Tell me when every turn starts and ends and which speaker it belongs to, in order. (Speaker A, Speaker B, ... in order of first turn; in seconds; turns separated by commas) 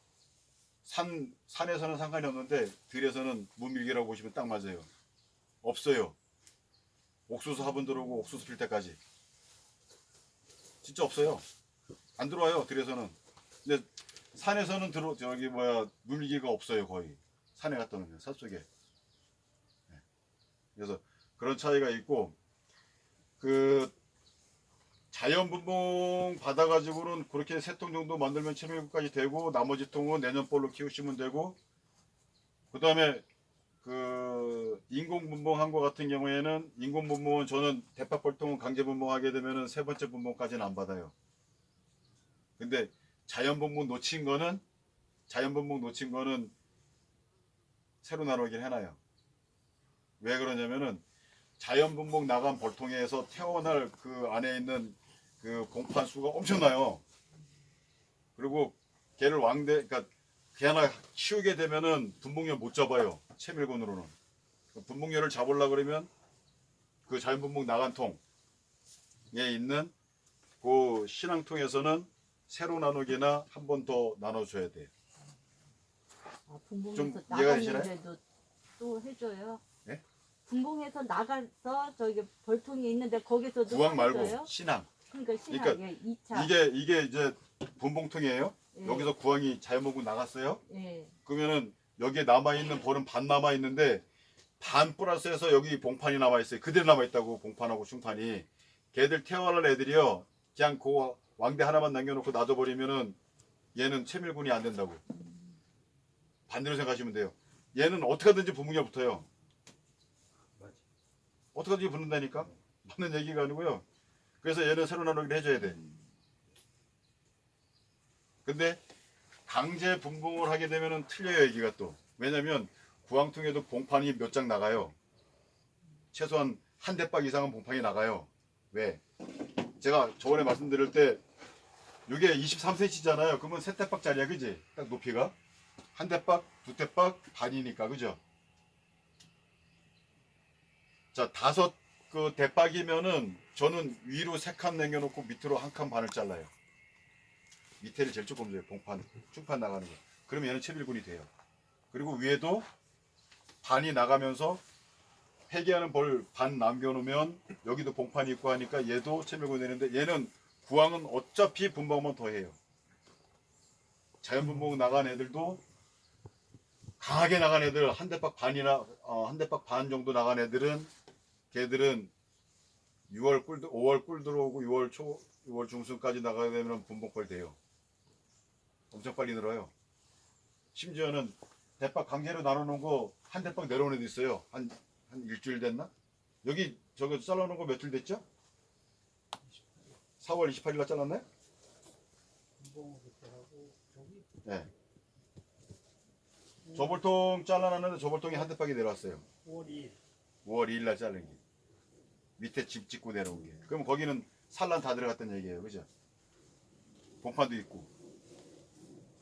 Speaker A: 0.8-4.9, Speaker A: 5.6-6.2, Speaker A: 7.3-9.0, Speaker A: 10.8-11.4, Speaker A: 12.2-18.7, Speaker A: 20.8-22.4, Speaker A: 23.4-23.9, Speaker A: 25.1-31.6, Speaker A: 32.7-33.2, Speaker A: 33.8-41.1, Speaker A: 42.6-44.6, Speaker A: 45.3-46.5, Speaker A: 48.0-49.0, Speaker A: 50.2-51.0, Speaker A: 51.6-57.0, Speaker A: 58.4-64.1, Speaker A: 64.7-66.1, Speaker A: 67.1-68.2, Speaker A: 69.3-69.9, Speaker A: 70.6-74.9, Speaker B: 76.5-78.2, Speaker A: 76.9-77.9, Speaker B: 78.8-79.6, Speaker B: 80.5-84.5, Speaker A: 83.7-84.9, Speaker B: 85.1-86.5, Speaker A: 85.5-90.6, Speaker B: 88.8-89.1, Speaker B: 90.7-91.1, Speaker A: 91.2-94.0, Speaker A: 94.6-103.2, Speaker A: 103.8-105.0, Speaker A: 106.5-109.3, Speaker A: 111.5-113.8, Speaker A: 114.4-115.8, Speaker A: 118.5-118.8, Speaker A: 119.5-124.9, Speaker A: 126.1-129.0, Speaker A: 129.8-131.2, Speaker A: 132.1-135.3, Speaker A: 135.9-138.2, Speaker A: 141.1-146.5, Speaker A: 147.8-151.3, Speaker A: 151.9-152.7, Speaker A: 153.6-154.6, Speaker A: 155.5-162.6, Speaker A: 164.2-165.6, Speaker A: 167.0-170.9, Speaker A: 171.5-172.1, Speaker A: 173.1-177.6, Speaker A: 178.9-179.7, Speaker A: 180.7-185.9, Speaker A: 186.4-188.2, Speaker A: 190.2-191.2, Speaker C: 192.6-194.2, Speaker A: 194.4-194.7, Speaker A: 196.7-199.2, Speaker C: 199.5-199.9, Speaker A: 200.4-201.4, Speaker A: 202.4-205.9, Speaker A: 207.2-207.9